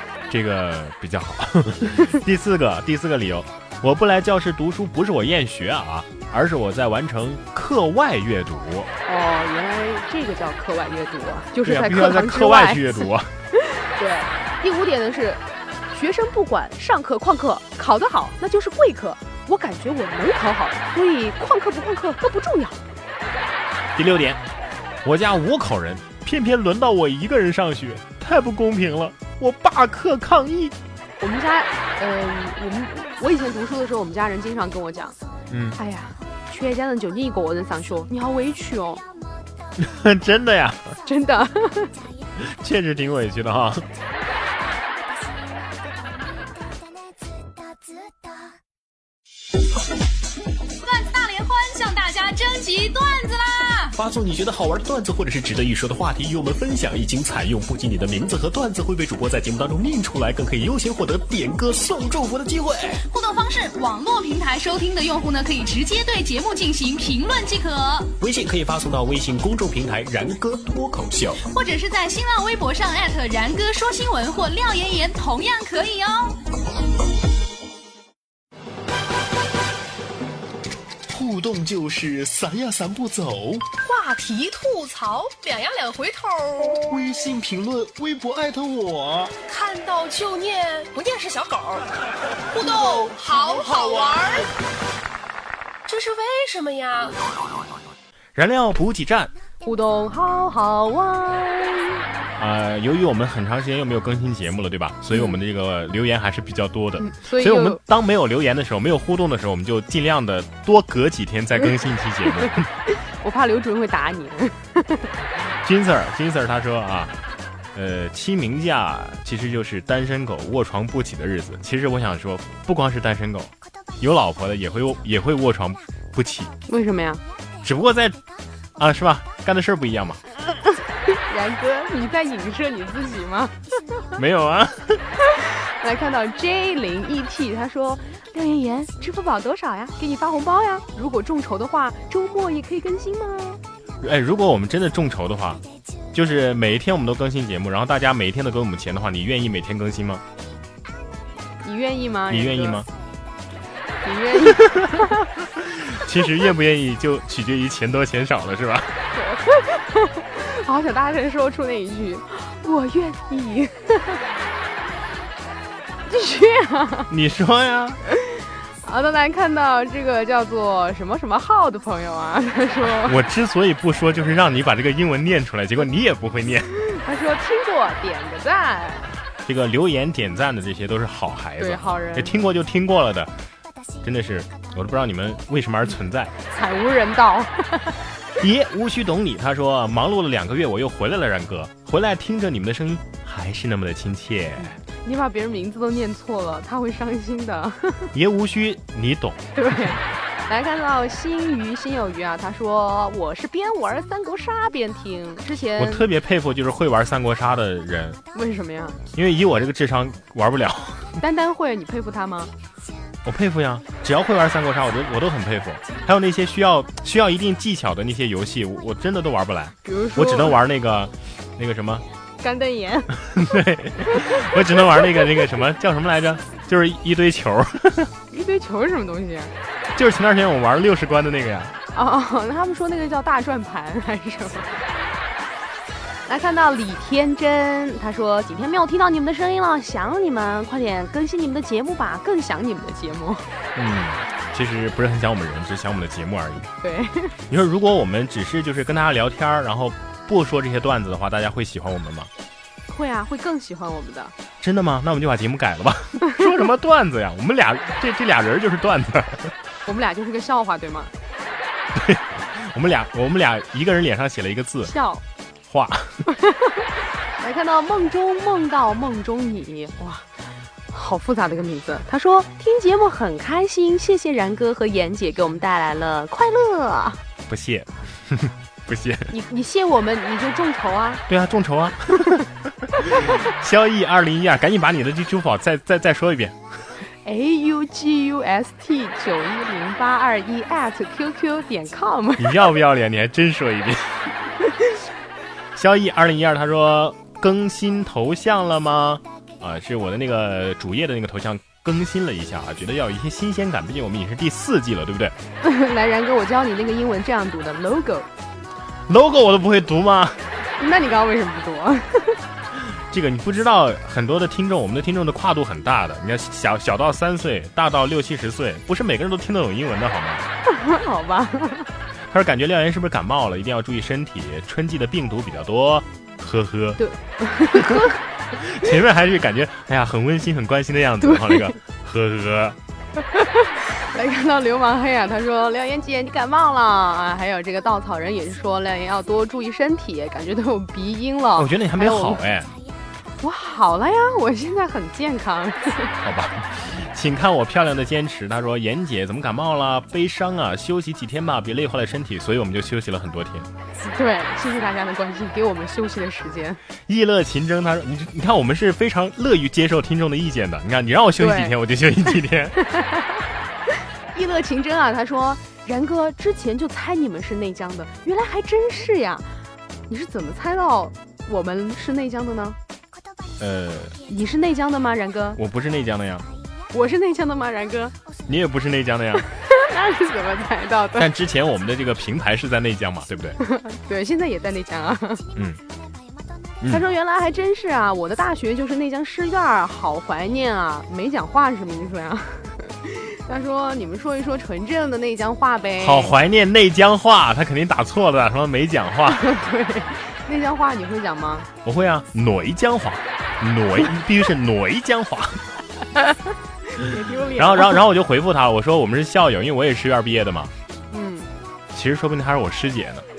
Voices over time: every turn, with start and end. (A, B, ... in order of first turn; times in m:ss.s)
0:00.3-0:08.9 A
0:09.0-0:13.0 B
0:11.6-0:13.3 A
0:13.5-0:22.8 B
0:24.0-0:24.4 A
0:25.0-0:30.7 A
0:31.2-0:35.2 B
0:35.5-0:35.8 A
0:35.8-0:39.0 B
0:39.8-0:40.9 A
0:41.0-0:41.9 B
0:42.4-0:43.8 A
0:50.8-0:53.9 C
0:54.0-1:03.0 D
1:03.1-1:08.1 C
1:08.2-1:11.4 D
1:11.4-1:16.3 C
1:21.1-1:23.6 D
1:23.8-1:26.8 C
1:26.8-1:29.3 D
1:29.4-1:31.8 C
1:32.5-1:34.5 C
1:35.9-1:37.2 C
1:38.3-1:39.3 A
1:39.6-1:42.0 B
1:42.4-1:52.7 A
1:47.0-1:47.8 B
1:52.9-1:55.1 B
1:55.6-1:57.1 A
1:57.7-2:06.5 A
2:06.7-2:07.2 B
2:07.6-2:08.2 A
2:08.8-2:10.2 A
2:11.1-2:14.0 B
2:14.2-2:15.0 A
2:15.3-2:23.6 B
2:24.0-2:25.6 A
2:26.1-2:30.2 A
2:31.6-2:32.8 B
2:32.3-2:32.9 A
2:34.0-2:35.0 B
2:34.5-2:34.9 A
2:35.7-2:38.9 A
2:39.2-2:44.2 B
2:46.1-2:47.1 B
2:47.1-2:48.0 A
2:48.1-2:53.2 B
2:52.9-2:56.7 A
2:56.9-2:59.2 B
2:59.4-3:03.3 A
3:01.6-3:02.4 B
3:04.0-3:06.3 A
3:06.5-3:08.0 B
3:08.4-3:14.8 A
3:14.6-3:18.1 B
3:18.1-3:19.4 A
3:19.6-3:26.0 B
3:25.8-3:28.2 A
3:28.3-3:29.0 B
3:29.1-3:31.2 A
3:31.2-3:32.5 B
3:33.2-3:42.0 A
3:39.8-3:40.6 B
3:42.4-3:43.3 B
3:43.3-3:48.1 A
3:44.1-3:45.2 B
3:48.3-3:49.5 B
3:49.9-3:51.7 A
3:51.9-3:54.8 B
3:56.3-4:03.5 B
4:03.7-4:06.7 A
4:06.8-4:07.3 B
4:07.5-4:12.3 A
4:12.9-4:14.3 B
4:14.6-4:19.5 A
4:19.8-4:21.1 B
4:21.9-4:24.9 A
4:24.8-4:25.2 B
4:25.7-4:26.2 A
4:26.4-4:26.8 B
4:27.4-4:30.3 B
4:30.9-4:37.2 B
4:37.5-4:39.3 A
4:39.3-4:41.2 B
4:41.3-4:42.4 A
4:43.2-4:46.6 A
4:47.2-4:52.7 B
4:52.4-4:54.3 A
4:55.7-5:05.3 A
5:05.6-5:08.3 B
5:09.1-5:10.4 A
5:10.8-5:12.4 B
5:13.1-5:20.5 A
5:20.6-5:21.9 B
5:22.3-5:27.0 A
5:27.0-5:28.2 B
5:27.7-5:28.0 A
5:28.6-5:32.8 A
5:31.2-5:31.7 B
5:33.3-5:42.4 B
5:41.6-5:42.7 A
5:43.4-5:46.1 B
5:46.2-5:53.7 A
5:54.0-5:56.8 B
5:57.1-6:02.8 A
6:01.4-6:01.7 B
6:02.8-6:03.4 B
6:04.3-6:12.8 B
6:13.6-6:14.2 A
6:14.3-6:15.6 B
6:15.6-6:16.5 A
6:16.9-6:18.1 B
6:18.5-6:19.4 A
6:19.7-6:21.3 B
6:21.2-6:23.6 A
6:23.6-6:25.4 B
6:26.9-6:36.3 B
6:36.0-6:39.5 A
6:39.3-6:41.7 B
6:41.8-6:45.6 A
6:46.9-6:48.0 B
6:47.6-6:50.7 A
6:51.1-6:51.5 B
6:51.9-6:53.2 A